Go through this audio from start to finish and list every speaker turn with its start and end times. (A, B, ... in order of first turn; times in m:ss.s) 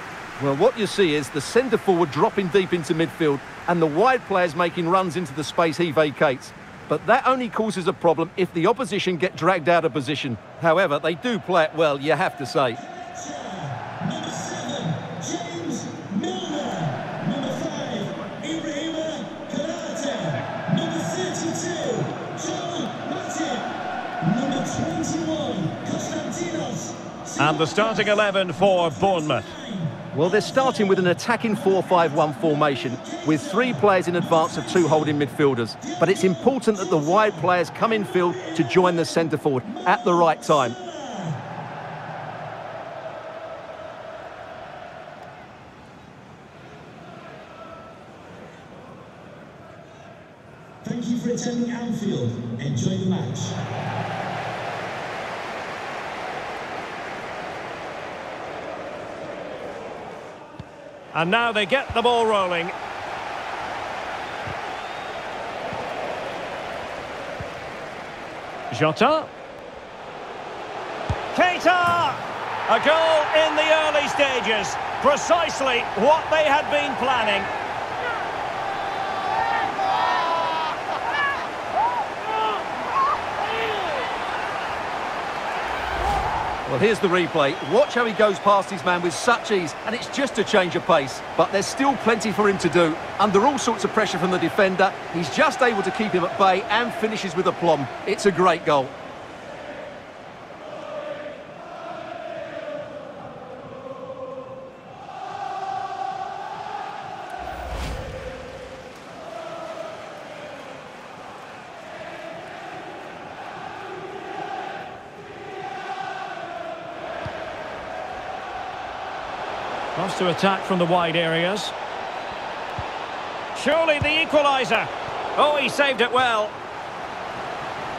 0:00.4-0:12.8 A
0:13.0-0:23.7 B
0:24.2-0:27.9 B
0:27.4-0:29.5 C
0:28.8-0:30.1 B
0:30.1-0:40.8 A
0:33.0-0:33.6 B
0:41.0-0:41.3 B
0:50.8-0:53.6 B
1:01.1-1:02.7 C
1:08.7-1:09.3 C
1:11.3-1:17.5 C
1:26.7-1:38.9 A
2:00.0-2:01.8 C
2:03.5-2:06.6 C